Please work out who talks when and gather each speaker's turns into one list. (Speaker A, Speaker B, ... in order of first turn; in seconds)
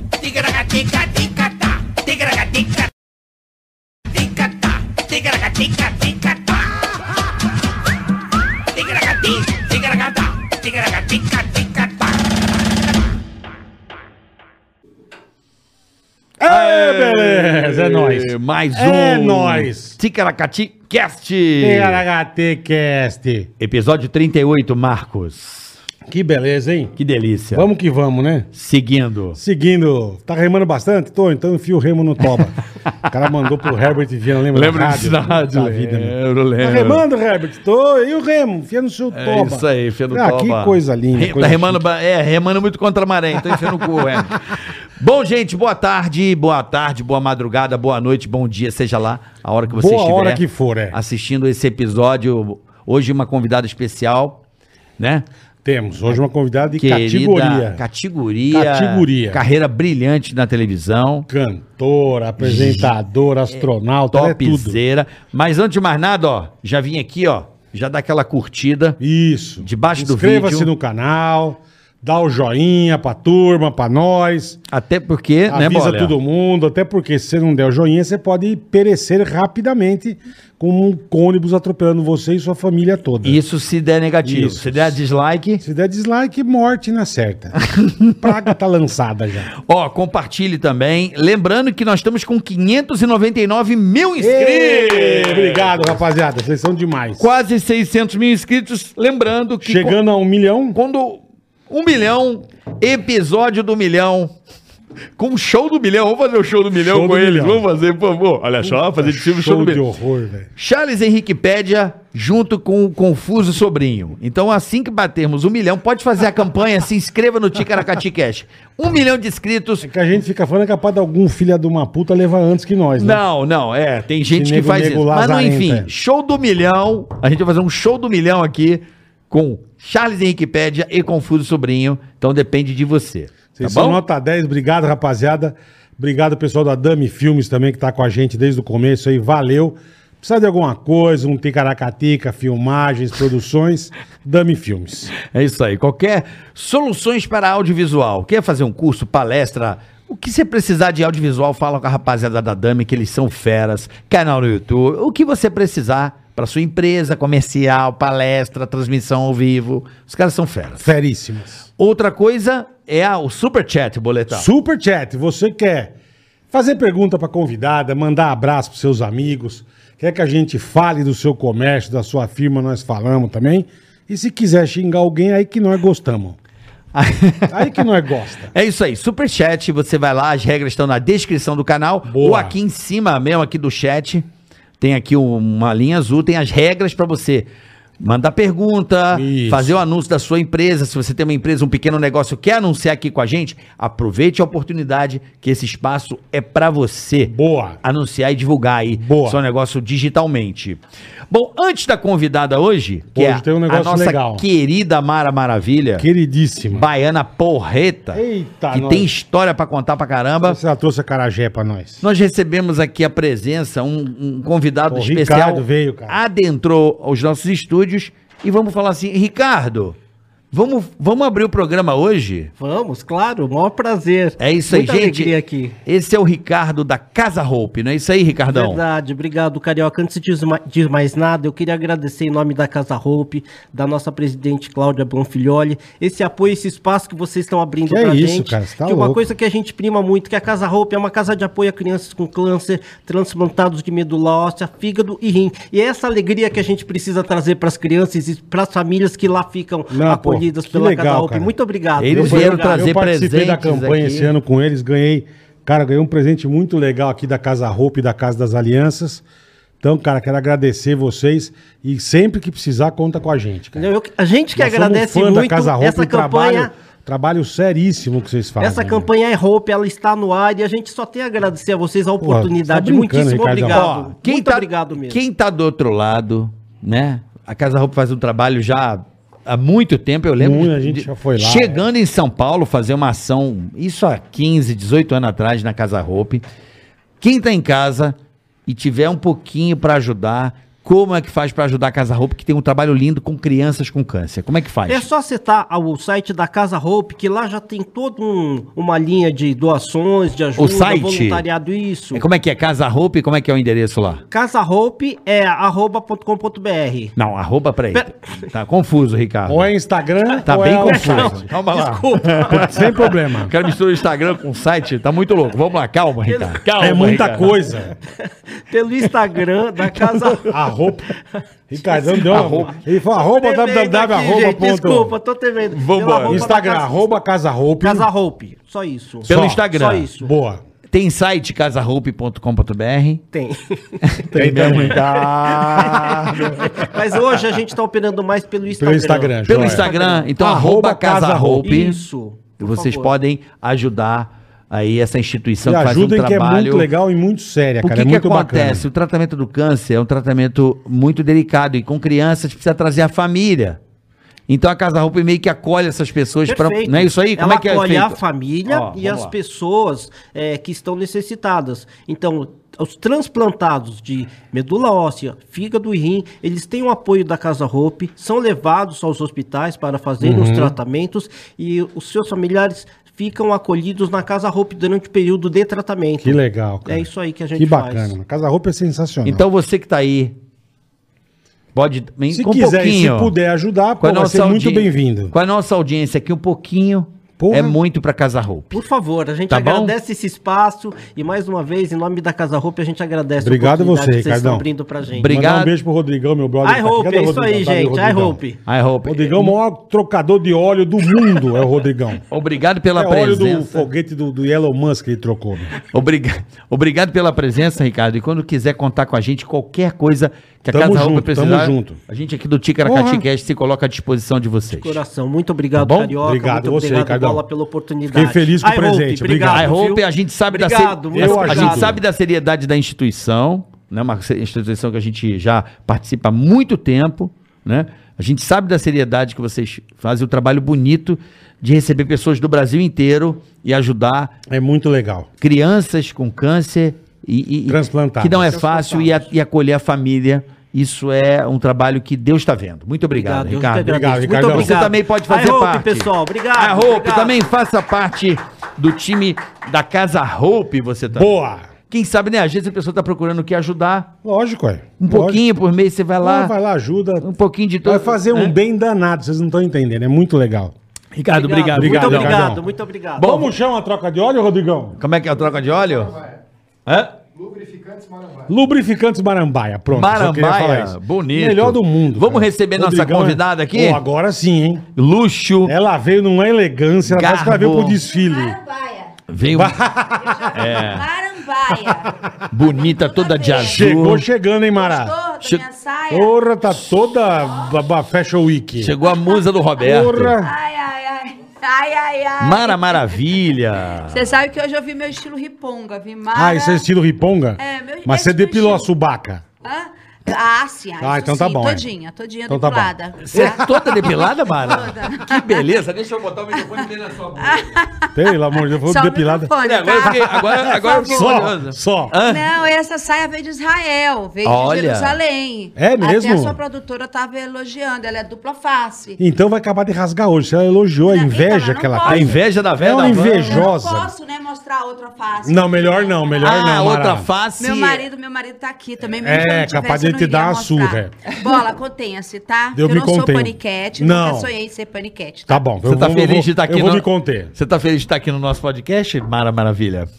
Speaker A: 0.3-2.6, 5.1-6.0, 8.8-11.8, 16.4-22.0, 23.6-25.8, 27.0-27.7, 28.5-29.4, 34.5-37.0, 39.1-54.4, 55.0-55.2, 56.8-61.3, 62.4-62.9, 64.1-69.0, 69.6-70.7, 74.7-76.1, 83.2-85.6, 87.6-88.1, 89.6-95.9, 97.2-100.0, 100.7-104.3, 105.2-109.8, 110.6-119.9, 123.0-134.0, 145.2-160.9, 161.8-164.5, 176.9-177.8, 178.5-184.2, 184.8-187.5, 188.0-206.1, 206.7-210.6, 212.0-219.9, 220.5-222.5, 224.4-225.3, 225.8-228.8, 252.0-254.3, 273.6-286.4, 287.2-288.1, 288.7-295.1, 300.6-301.4, 302.1-304.2, 307.1-309.7, 310.4-317.6, 322.2-322.8, 325.7-326.4, 329.2-330.1, 330.9-333.2, 334.0-336.8, 339.5-342.0, 342.6-346.9, 347.8-353.8, 354.5-359.3, 379.2-380.3, 381.7-383.3, 384.0-388.8, 389.5-389.9, 395.2-395.7, 398.6-399.6, 402.3-403.9, 405.8-415.0, 415.8-416.1, 419.5-434.3, 435.4-451.3, 451.9-454.1, 455.0-456.5, 457.2-458.6, 461.1-462.5, 463.2-463.5, 465.0-466.2, 466.9-467.1, 469.9-474.0, 474.9-475.8, 477.1-478.0, 479.3-479.8, 480.5-481.1, 482.5-484.3, 488.8-490.4, 492.4-494.3, 503.3-507.7, 509.6-512.5, 514.4-515.2, 522.0-523.7, 526.4-528.0, 535.8-540.1
Speaker B: 16.4-20.0, 21.6-23.5, 26.1-26.9, 27.5-28.5, 29.3-41.8, 43.5-43.7, 49.7-51.0, 55.6-57.8, 58.5-59.4, 61.3-64.8, 69.0-74.6, 75.5-83.4, 84.2-85.0, 85.6-87.6, 88.2-89.5, 94.2-97.3, 99.6-100.8, 106.7-107.6, 108.6-110.5, 119.8-123.2, 124.3-125.9, 133.5-145.1, 160.8-161.6, 164.3-165.9, 166.5-176.4, 177.5-178.5, 182.0-182.6, 189.1-189.8, 197.2-197.8, 198.9-199.4, 203.1-204.4, 206.0-206.9, 208.1-209.1, 210.4-212.0, 214.9-216.2, 237.9-239.2, 249.9-251.5, 252.1-259.2, 259.8-263.9, 264.5-269.1, 272.2-273.9, 280.4-281.8, 309.4-311.4, 312.5-313.5, 316.8-317.9, 320.4-321.1, 321.7-325.1, 326.2-328.1, 329.3-329.6, 330.2-330.6, 334.3-335.1, 338.8-341.7, 345.6-348.9, 370.2-370.8, 376.2-379.5, 382.3-385.3, 387.4-387.8, 393.4-394.6, 395.2-398.4, 399.0-402.2, 402.9-405.8, 410.7-412.0, 412.8-413.2, 415.8-417.4, 418.1-419.7, 421.1-422.0, 434.5-435.3, 437.7-438.6, 443.8-444.9, 451.1-451.7, 454.2-455.4, 456.2-457.3, 457.8-460.7, 461.7-462.6, 463.2-465.0, 468.4-474.9, 475.6-478.6, 479.4-480.6, 483.7-485.1, 486.1-488.9, 489.8-490.5, 496.3-499.4, 501.0-501.9, 502.5-503.8, 508.1-509.5, 510.9-512.1, 515.8-516.6, 519.2-524.1, 525.4-527.3, 529.2-531.1, 532.7-534.5, 535.5-537.5
Speaker C: 222.6-225.7, 228.5-252.8, 263.8-266.7, 268.6-275.2, 294.9-302.2, 304.3-307.1, 310.3-313.1, 316.3-317.0, 318.1-320.6, 321.8-327.1, 327.8-330.3, 333.3-340.3, 341.6-343.1, 356.5-378.1, 388.7-395.3, 396.6-398.6, 414.7-422.0, 438.5-439.3, 443.1-447.5, 461.3-463.4
Speaker D: 478.0-479.1, 480.1-483.8, 484.7-486.4, 489.0-489.4, 490.4-493.2, 494.1-496.8, 497.6-498.9, 499.6-505.7, 507.4-511.3, 512.2-519.2, 521.0-522.4, 523.0-526.7, 527.6-535.6